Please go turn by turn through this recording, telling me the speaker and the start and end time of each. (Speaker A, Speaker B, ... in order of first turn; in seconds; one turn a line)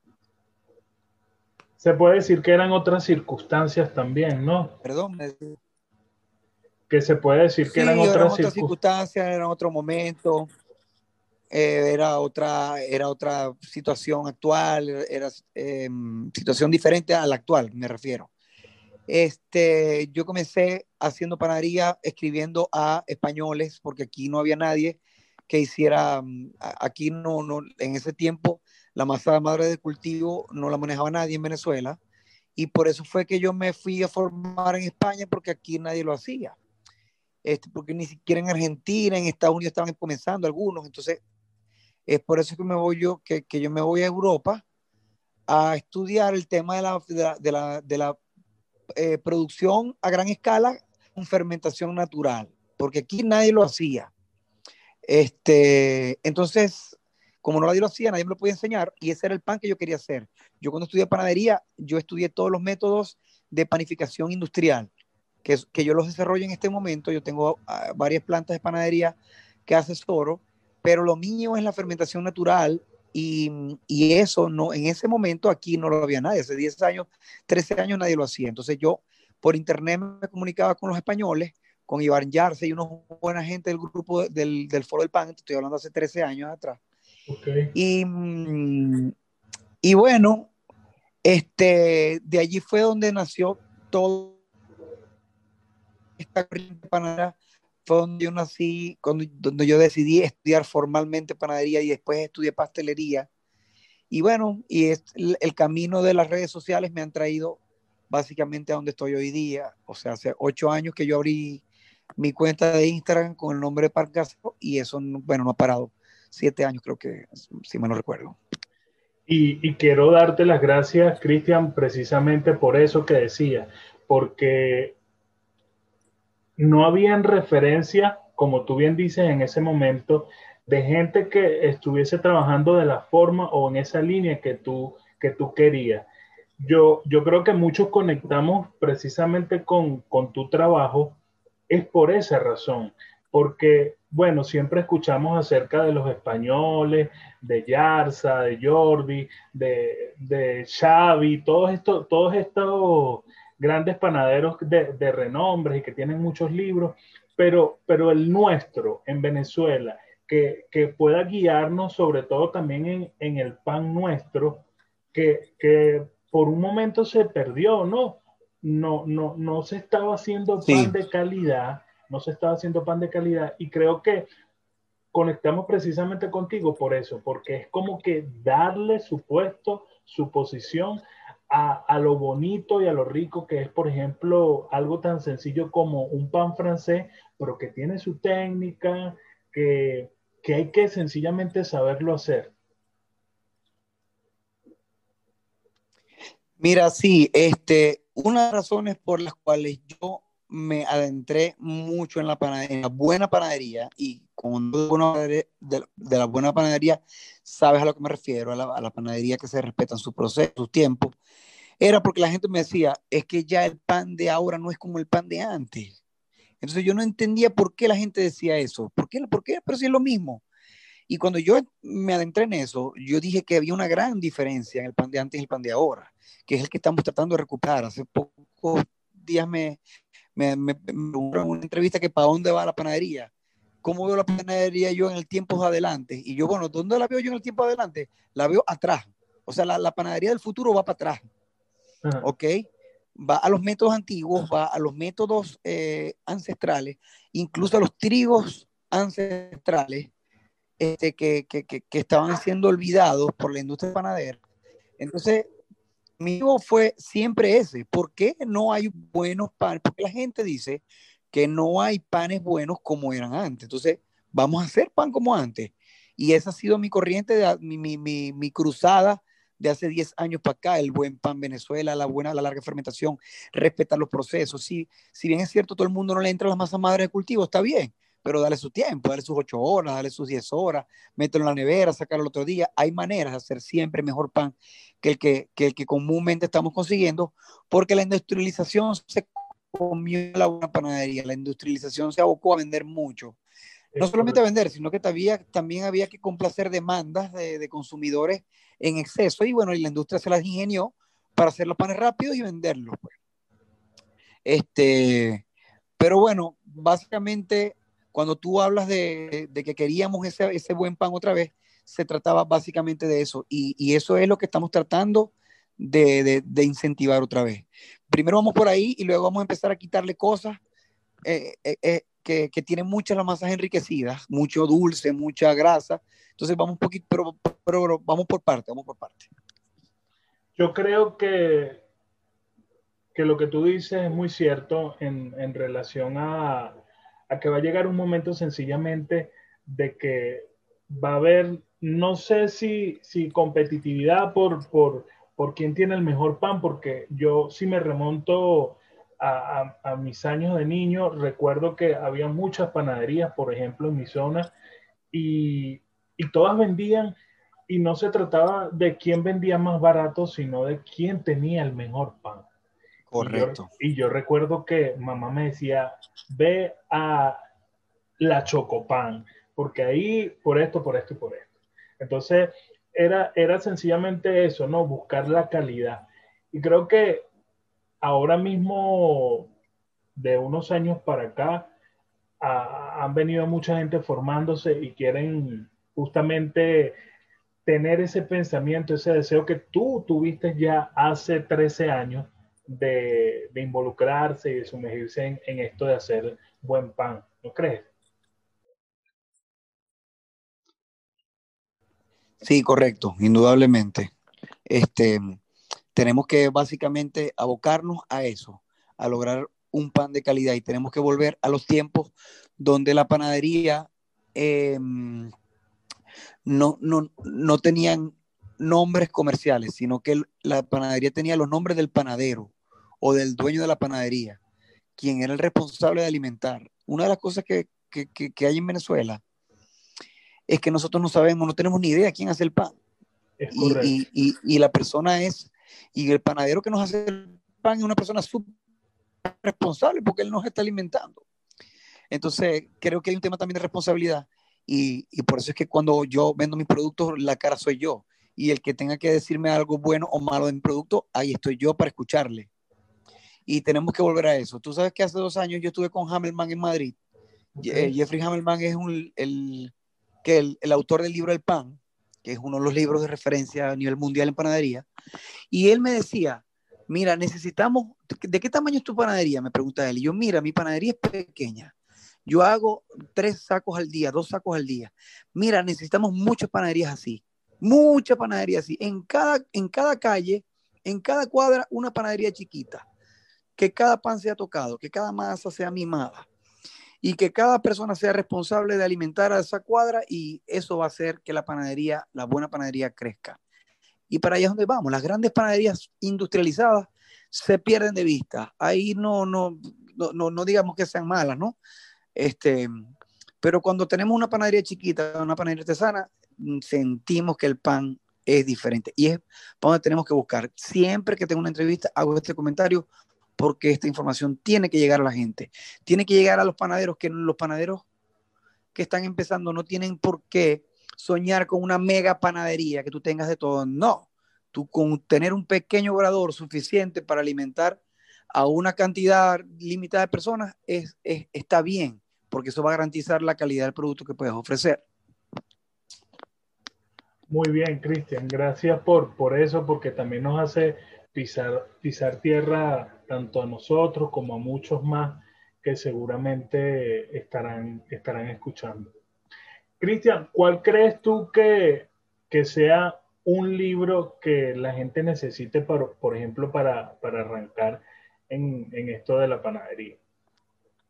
Speaker A: 1.8-4.8
Speaker B: 4.8-5.5
Speaker A: 6.9-8.7
Speaker B: 7.7-10.5
Speaker B: 11.5-18.3
Speaker B: 19.1-32.0
Speaker B: 32.6-36.5
Speaker B: 37.4-41.2
Speaker B: 42.1-44.6
Speaker B: 45.5-48.2
Speaker B: 49.0-54.1
Speaker B: 55.0-64.9
Speaker B: 65.4-86.8
Speaker A: 87.3-87.7
Speaker B: 87.7-89.1
Speaker B: 89.8-90.5
Speaker B: 91.2-94.3
Speaker B: 96.2-103.3
Speaker B: 104.1-107.6
Speaker B: 108.1-111.6
Speaker B: 112.2-118.4
Speaker A: 119.3-125.0
Speaker A: 126.6-136.1
Speaker A: 136.6-141.2
Speaker A: 141.7-174.3
Speaker B: 170.6-170.9
Speaker A: 175.1-192.5
Speaker B: 196.6-211.2
Speaker B: 211.8-215.9
Speaker B: 216.6-220.4
Speaker B: 221.1-229.8
Speaker B: 230.3-233.3
Speaker B: 233.8-241.3
Speaker B: 242.2-250.1
Speaker B: 250.8-254.4
Speaker B: 255.0-255.5
Speaker B: 256.2-293.4
Speaker A: 293.9-294.4
Speaker B: 294.0-303.1
Speaker B: 304.4-305.4
Speaker B: 306.0-320.6
Speaker B: 321.2-329.3
Speaker A: 330.6-331.8
Speaker A: 333.1-354.5
Speaker A: 355.1-357.1
Speaker A: 357.7-362.5
Speaker B: 363.1-363.7
Speaker A: 363.2-367.4
Speaker A: 368.2-377.2
Speaker A: 378.0-379.5
Speaker A: 380.1-381.7
Speaker A: 382.4-386.9
Speaker A: 387.6-397.9
Speaker B: 402.4-404.1
Speaker B: 404.7-405.4
Speaker B: 405.9-415.3
Speaker B: 416.5-424.4
Speaker B: 425.0-429.2
Speaker B: 430.5-432.7
Speaker A: 433.4-433.9
Speaker B: 433.5-438.5
Speaker B: 439.2-441.2
Speaker B: 442.1-452.5
Speaker B: 453.5-456.9
Speaker A: 457.6-457.9
Speaker B: 457.6-459.7
Speaker B: 460.2-464.9
Speaker B: 465.5-471.7
Speaker B: 472.2-482.8
Speaker B: 483.6-486.3
Speaker B: 487.0-493.4
Speaker B: 494.1-501.6
Speaker B: 502.1-502.8
Speaker B: 503.4-512.9
Speaker B: 513.4-517.8
Speaker B: 518.7-527.8
Speaker B: 528.3-534.8
Speaker A: 537.3-548.9
Speaker A: 549.8-560.0